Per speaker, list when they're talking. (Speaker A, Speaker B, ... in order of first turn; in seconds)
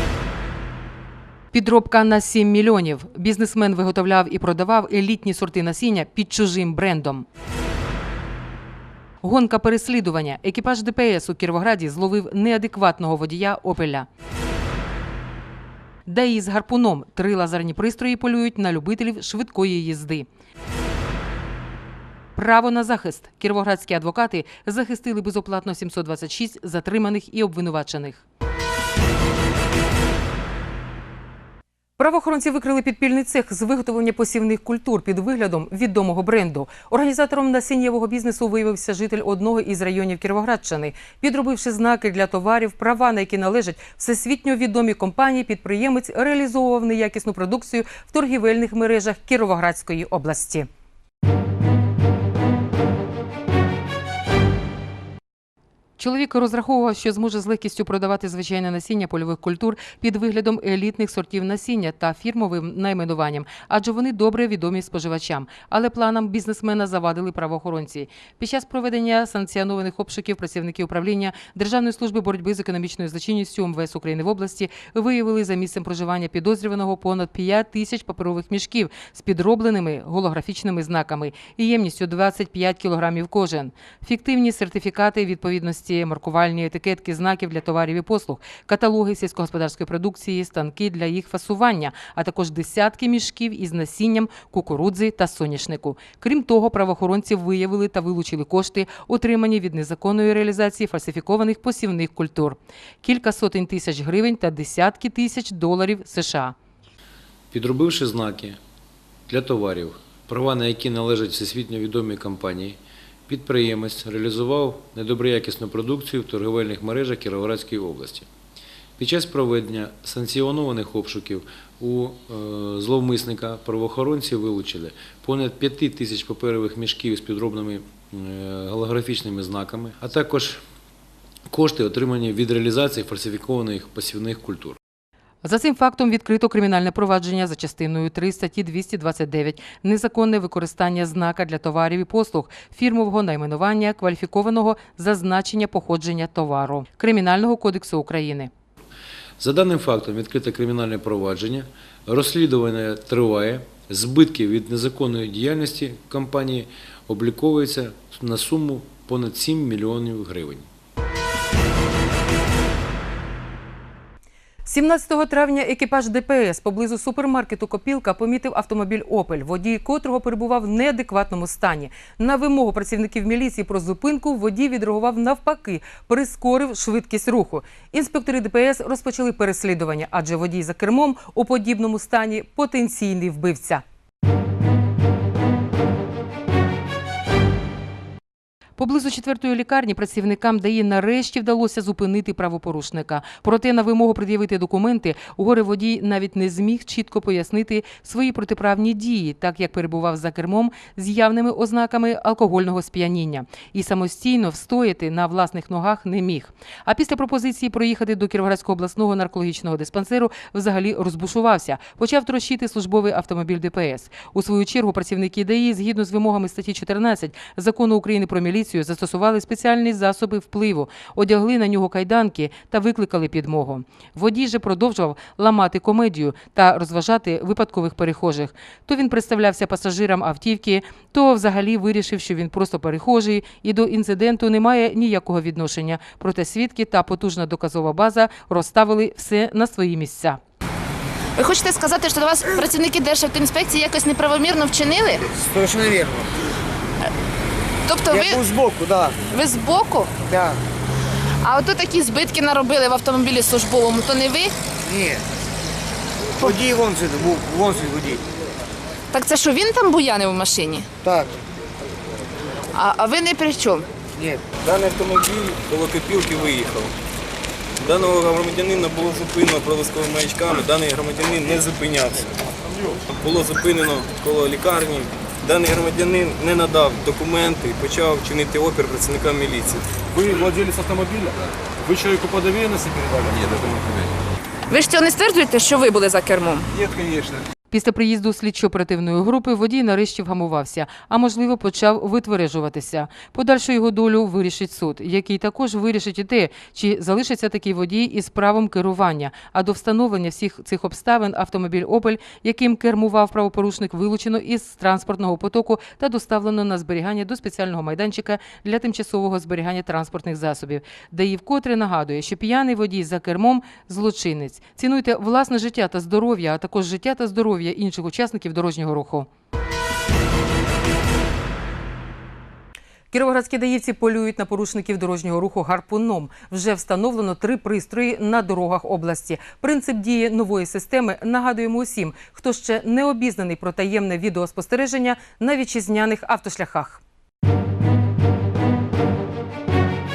Speaker A: 1.5-7.2, 9.2-14.1, 16.1-20.3, 22.4-28.2, 32.0-50.7, 56.0-106.5, 135.4-148.5, 164.7-183.8, 188.8-240.4, 287.7-319.3, 323.1-337.0
Speaker B: 107.5-108.6, 109.3-118.3, 119.0-130.6, 131.5-134.8, 149.4-160.7
Speaker C: 241.4-245.2, 247.9-248.4, 249.3-250.1, 251.4-254.5, 259.1-260.9, 262.7-263.9, 284.7-286.7
Speaker D: 245.6-246.1, 256.6-258.1
Speaker E: 248.1-248.4, 264.6-266.9, 267.8-272.3, 273.1-279.9
Speaker F: 272.7-273.0, 280.1-284.1, 286.7-287.4